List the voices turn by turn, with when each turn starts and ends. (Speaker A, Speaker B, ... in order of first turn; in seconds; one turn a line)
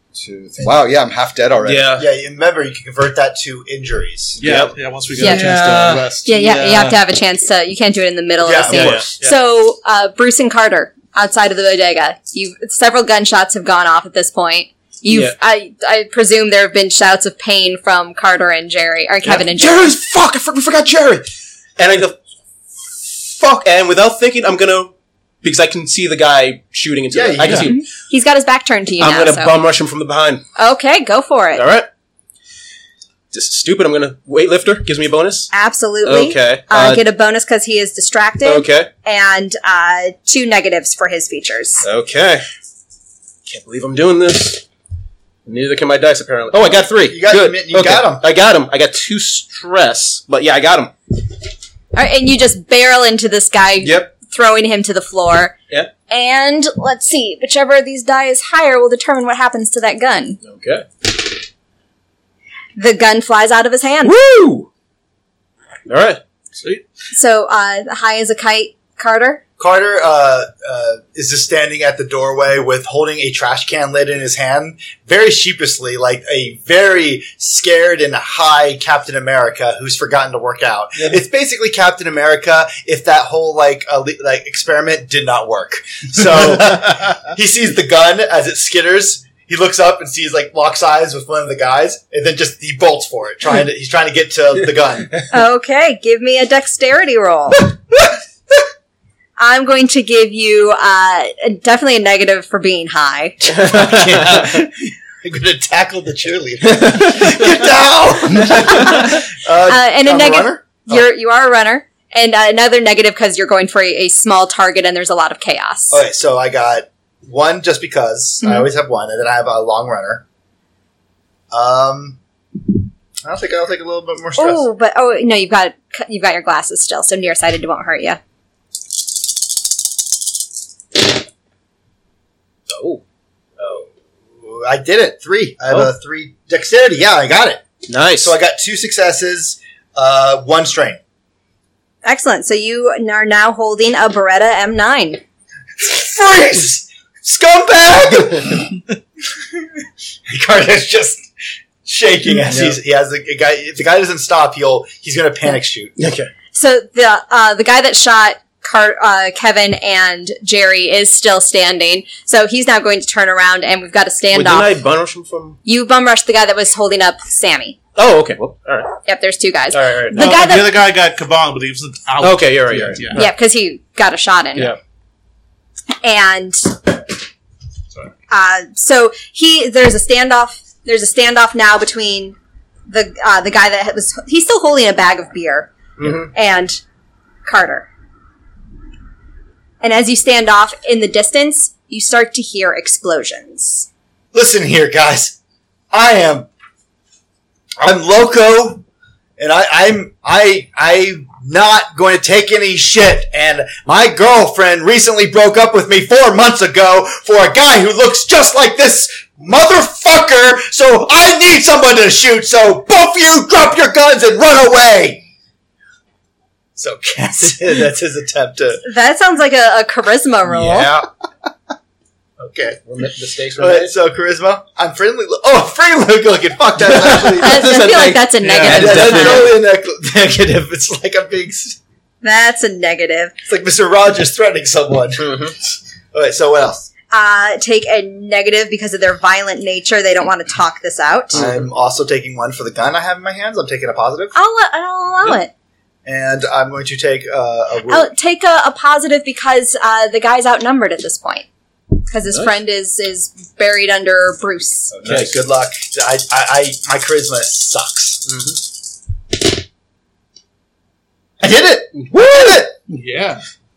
Speaker A: 0.1-1.9
Speaker B: 1.6-2.0
Speaker C: 1.9-4.4
Speaker D: 4.4-7.0
Speaker B: 4.4-6.1
Speaker E: 5.2-5.5
Speaker E: 6.2-19.9
Speaker C: 8.4-9.0
Speaker D: 8.7-9.4
Speaker B: 15.1-15.3
Speaker B: 19.2-22.2
Speaker B: 22.9-24.9
Speaker B: 25.4-27.8
Speaker C: 27.1-27.7
Speaker D: 27.4-27.7
Speaker E: 27.6-29.5
Speaker B: 29.0-30.4
Speaker E: 30.6-31.6
Speaker B: 31.6-31.9
Speaker B: 33.3-35.5
Speaker E: 35.5-41.8
Speaker B: 36.0-37.0
Speaker B: 38.4-38.9
Speaker B: 41.8-42.4
Speaker B: 43.5-44.6
Speaker B: 45.5-50.9
Speaker C: 47.1-48.2
Speaker E: 51.9-55.5
Speaker B: 53.8-54.1
Speaker E: 56.1-60.4
Speaker B: 60.4-60.9
Speaker E: 62.8-64.2
Speaker B: 64.0-64.7
Speaker B: 65.8-66.2
Speaker D: 66.6-66.8
Speaker E: 67.1-69.4
Speaker C: 69.6-95.1
Speaker E: 95.3-97.7
Speaker E: 99.4-103.6
Speaker C: 103.5-111.1
Speaker B: 107.1-107.4
Speaker E: 109.7-116.0
Speaker C: 115.9-120.2
Speaker E: 118.4-118.7
Speaker C: 121.5-122.2
Speaker C: 123.2-124.6
Speaker E: 124.4-128.2
Speaker B: 132.7-133.0
Speaker C: 134.4-141.0
Speaker B: 137.9-138.3
Speaker E: 142.0-145.2
Speaker C: 145.8-148.8
Speaker C: 149.3-151.3
Speaker C: 151.8-155.9
Speaker B: 152.5-152.8
Speaker B: 156.0-156.3
Speaker E: 156.5-164.7
Speaker B: 164.3-165.6
Speaker E: 165.6-167.8
Speaker B: 167.9-168.9
Speaker E: 169.1-170.8
Speaker B: 169.7-170.2
Speaker D: 170.1-173.2
Speaker B: 172.2-173.2
Speaker E: 173.1-174.7
Speaker E: 176.0-176.9
Speaker E: 178.3-182.3
Speaker E: 182.9-186.8
Speaker B: 186.0-186.3
Speaker E: 187.4-187.9
Speaker E: 189.8-193.9
Speaker C: 194.3-195.3
Speaker C: 195.9-196.5
Speaker C: 197.8-198.8
Speaker C: 199.4-215.2
Speaker C: 216.8-218.8
Speaker E: 218.8-220.9
Speaker B: 220.5-221.1
Speaker C: 222.4-222.8
Speaker B: 222.9-223.9
Speaker C: 223.6-227.7
Speaker B: 226.9-229.5
Speaker E: 227.4-229.4
Speaker D: 228.4-228.8
Speaker C: 228.7-231.8
Speaker E: 232.2-233.3
Speaker C: 233.4-235.5
Speaker B: 235.2-235.5
Speaker C: 236.1-236.9
Speaker E: 237.1-241.4
Speaker C: 241.3-244.3
Speaker B: 241.4-241.6
Speaker E: 244.3-245.5
Speaker C: 246.0-248.1
Speaker E: 247.9-251.4
Speaker E: 252.1-254.9
Speaker A: 254.9-255.3
Speaker C: 255.0-258.3
Speaker C: 261.4-262.8
Speaker D: 262.9-263.4